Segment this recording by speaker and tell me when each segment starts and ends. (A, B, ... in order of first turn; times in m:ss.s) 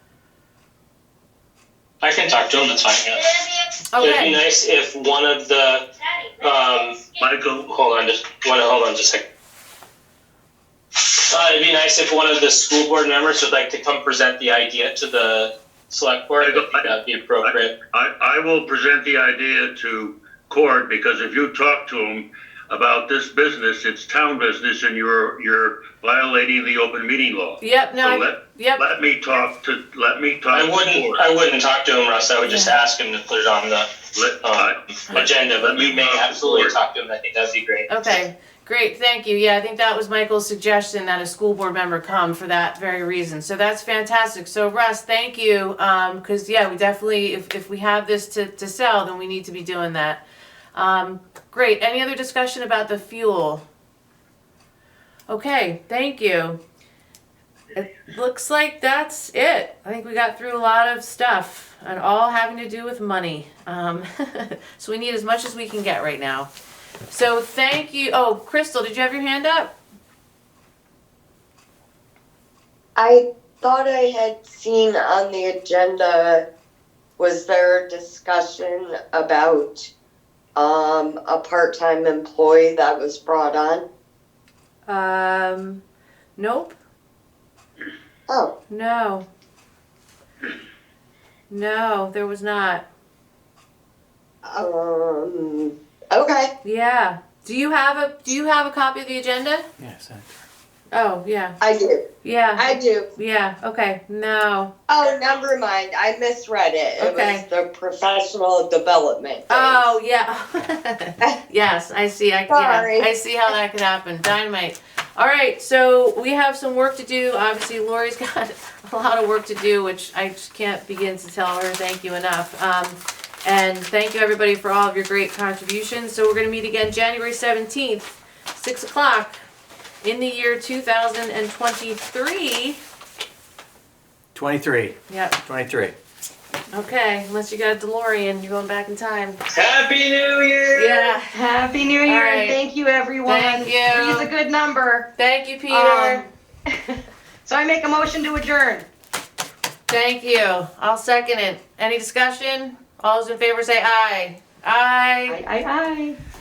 0:02.0-0:07.0 A
0:03.9-0:04.4 B
0:07.2-0:07.7 C
0:07.7-0:09.2 A
0:11.2-0:17.7 A
0:16.4-0:31.2 C
0:27.6-0:28.8 B
0:30.5-0:33.9 A
0:32.4-0:32.7 B
0:34.1-0:36.8 C
0:34.4-0:37.9 A
0:37.9-0:50.2 B
0:50.7-0:53.6 B
0:55.3-0:56.6 B
0:57.7-1:06.5 B
1:07.1-1:09.7 B
1:13.0-1:16.4 D
1:17.2-1:19.9 D
1:20.6-1:23.8 D
1:24.9-1:25.8 B
1:26.4-1:26.7 B
1:28.7-1:29.2 B
1:31.5-1:32.8 B
1:34.5-1:36.5 D
1:36.6-1:39.6 B
1:39.8-1:40.3 E
1:40.9-1:41.6 B
1:41.6-1:42.0 D
1:42.2-1:44.7 B
1:42.6-1:43.1 D
1:44.9-1:50.0 D
1:47.0-1:47.4 B
1:49.5-2:09.3 B
1:52.5-1:53.1 D
2:10.0-2:12.8 B
2:14.3-2:16.0 E
2:15.1-2:15.4 B
2:16.7-2:19.4 B
2:19.5-2:21.1 A
2:20.7-2:21.4 B
2:21.3-2:25.1 F
2:22.0-2:22.6 B
2:23.2-2:24.3 B
2:25.2-2:26.2 B
2:25.7-2:28.9 F
2:29.9-2:35.4 B
2:35.3-2:36.2 F